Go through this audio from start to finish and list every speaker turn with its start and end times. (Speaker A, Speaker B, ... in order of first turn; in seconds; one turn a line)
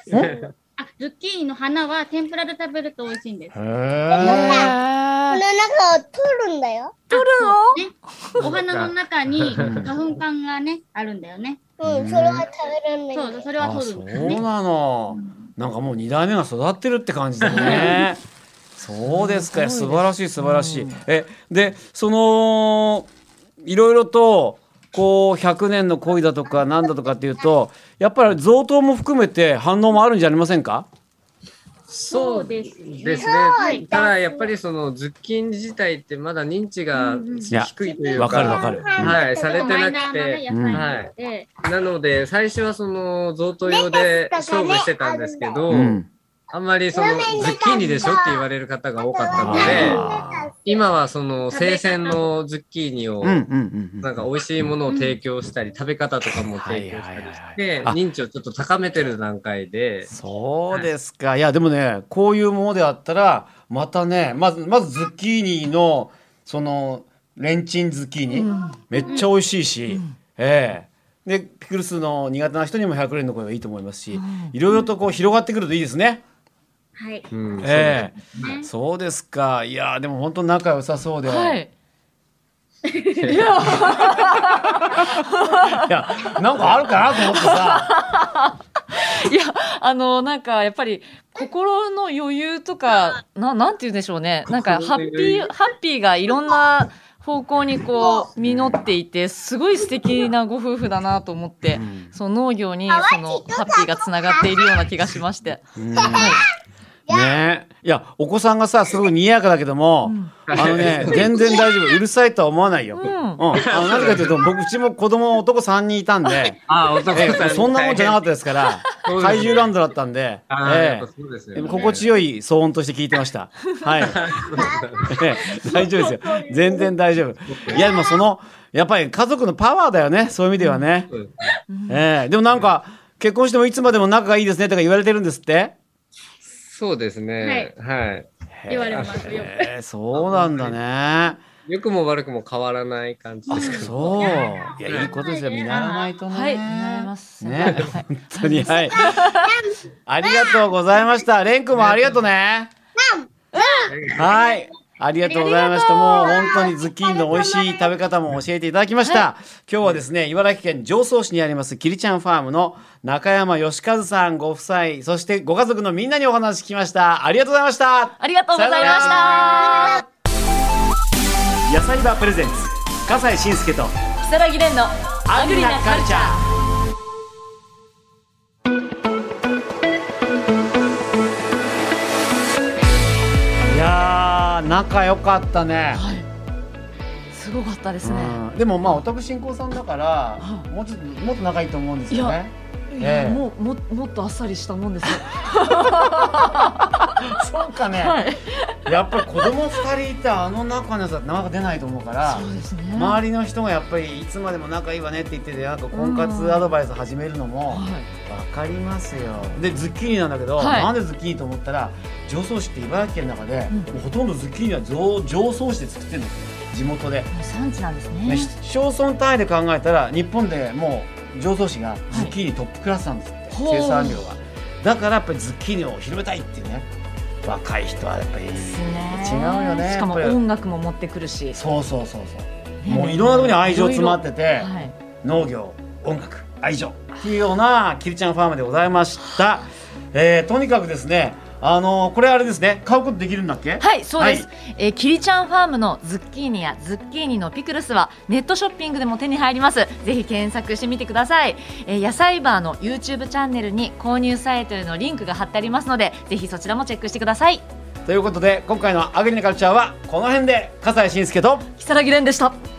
Speaker A: 0.1-0.5
Speaker B: 0.8-3.5
Speaker C: 3.5-4.7
Speaker D: 4.2-4.7
Speaker E: 4.2-5.4
Speaker D: 5.3-7.0
Speaker B: 7.1-11.6
Speaker E: 7.1-8.3
Speaker A: 8.4-9.9
Speaker C: 9.6-9.9
Speaker D: 11.8-13.5
Speaker C: 11.8-12.5
Speaker B: 13.1-14.4
Speaker C: 13.6-18.2
Speaker A: 17.4-17.9
Speaker B: 17.5-18.0
Speaker C: 18.8-23.1
Speaker E: 19.0-21.1
Speaker C: 23.6-30.9
Speaker A: 31.9-41.1
Speaker B: 32.1-33.9
Speaker D: 33.1-34.5
Speaker B: 36.9-41.5
Speaker C: 37.5-39.2
Speaker D: 38.1-40.0
Speaker C: 40.5-40.9
Speaker A: 41.6-50.0
Speaker D: 43.6-45.6
Speaker C: 45.7-46.1
Speaker D: 46.9-48.4
Speaker D: 49.0-50.5
Speaker C: 49.4-50.5
Speaker B: 49.6-50.0
Speaker A: 50.6-53.5
Speaker B: 51.5-52.2
Speaker C: 53.2-54.2
Speaker A: 54.0-60.1
Speaker B: 54.9-55.2
Speaker C: 56.6-58.0
Speaker C: 60.1-76.2
Speaker E: 68.3-68.8
Speaker E: 69.9-70.2
Speaker E: 74.1-74.5
Speaker B: 77.0-77.3
Speaker A: 77.3-78.5
Speaker C: 77.6-81.6
Speaker B: 78.4-78.7
Speaker E: 81.2-81.7
Speaker B: 82.8-83.5
Speaker A: 83.2-83.5
Speaker E: 83.3-86.3
Speaker C: 85.6-87.9
Speaker E: 87.2-106.4
Speaker A: 94.5-95.5
Speaker D: 98.0-98.3
Speaker C: 98.4-98.8
Speaker C: 101.7-102.1
Speaker D: 102.9-104.9
Speaker C: 105.8-106.4
Speaker D: 105.9-106.3
Speaker D: 107.1-107.3
Speaker C: 107.1-124.3
Speaker E: 110.0-110.4
Speaker A: 110.5-111.3
Speaker D: 111.1-112.0
Speaker E: 113.0-113.4
Speaker A: 113.5-114.5
Speaker A: 116.7-118.2
Speaker A: 119.0-119.7
Speaker A: 120.5-122.1
Speaker B: 121.6-122.0
Speaker A: 124.0-125.1
Speaker D: 124.5-126.9
Speaker C: 125.1-131.1
Speaker A: 127.5-127.8
Speaker D: 127.7-128.2
Speaker E: 130.6-130.9
Speaker E: 131.7-132.1
Speaker C: 131.9-135.7
Speaker A: 136.4-139.5
Speaker B: 137.4-137.7
Speaker C: 138.5-141.4
Speaker B: 138.7-139.7
Speaker A: 140.1-140.8
Speaker A: 141.7-144.3
Speaker B: 143.5-146.1
Speaker C: 143.5-149.3
Speaker A: 144.8-145.1
Speaker E: 146.3-149.5
Speaker D: 149.0-151.2
Speaker C: 150.1-152.7
Speaker A: 151.7-152.2
Speaker D: 153.0-154.7
Speaker A: 153.9-154.2
Speaker C: 154.1-169.8
Speaker D: 155.3-157.9
Speaker E: 159.0-159.3
Speaker E: 168.2-170.0
Speaker D: 168.9-170.0
Speaker C: 171.7-173.9
Speaker E: 174.2-176.4
Speaker C: 175.2-176.4
Speaker C: 183.7-186.0
Speaker E: 185.9-186.3
Speaker E: 187.3-189.0
Speaker C: 188.0-193.4
Speaker E: 190.4-190.7
Speaker E: 192.1-192.4
Speaker E: 192.9-197.2
Speaker C: 195.6-198.2
Speaker E: 197.9-199.8
Speaker C: 198.8-217.3
Speaker E: 202.2-203.2
Speaker E: 205.9-206.7
Speaker E: 207.7-208.1
Speaker E: 210.6-210.9
Speaker E: 217.3-218.5
Speaker C: 218.2-226.9
Speaker E: 223.5-224.2
Speaker C: 227.4-230.4
Speaker E: 228.6-231.6
Speaker C: 231.5-234.7
Speaker E: 232.8-234.9
Speaker C: 235.2-244.5
Speaker E: 239.2-239.5
Speaker E: 243.8-257.6
Speaker C: 258.1-261.7
Speaker E: 261.8-262.6